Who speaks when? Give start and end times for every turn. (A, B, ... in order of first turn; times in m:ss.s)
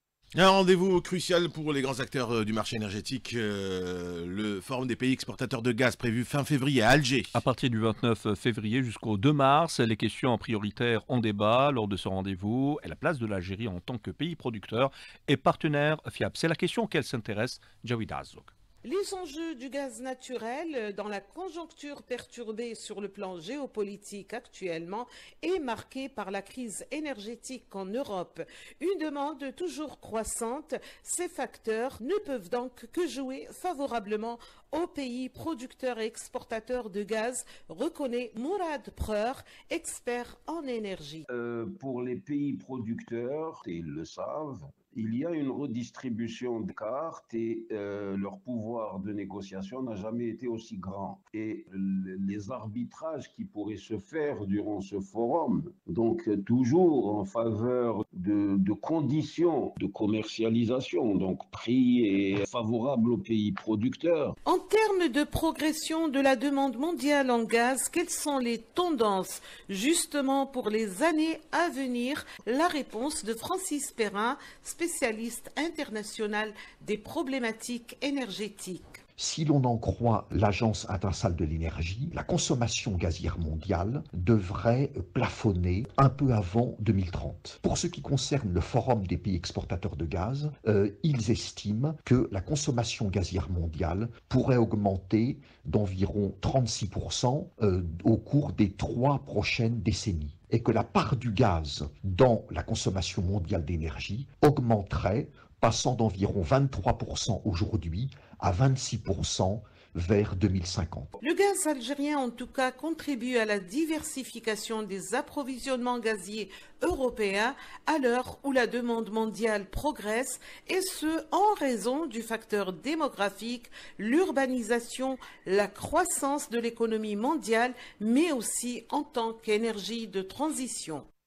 0:00.3-0:07.4 A
0:07.3-0:18.5 B
0:18.8-0:41.2 C
0:41.2-1:04.4 D
1:04.4-1:19.0 C
1:19.2-1:51.1 E
1:51.2-2:11.1 C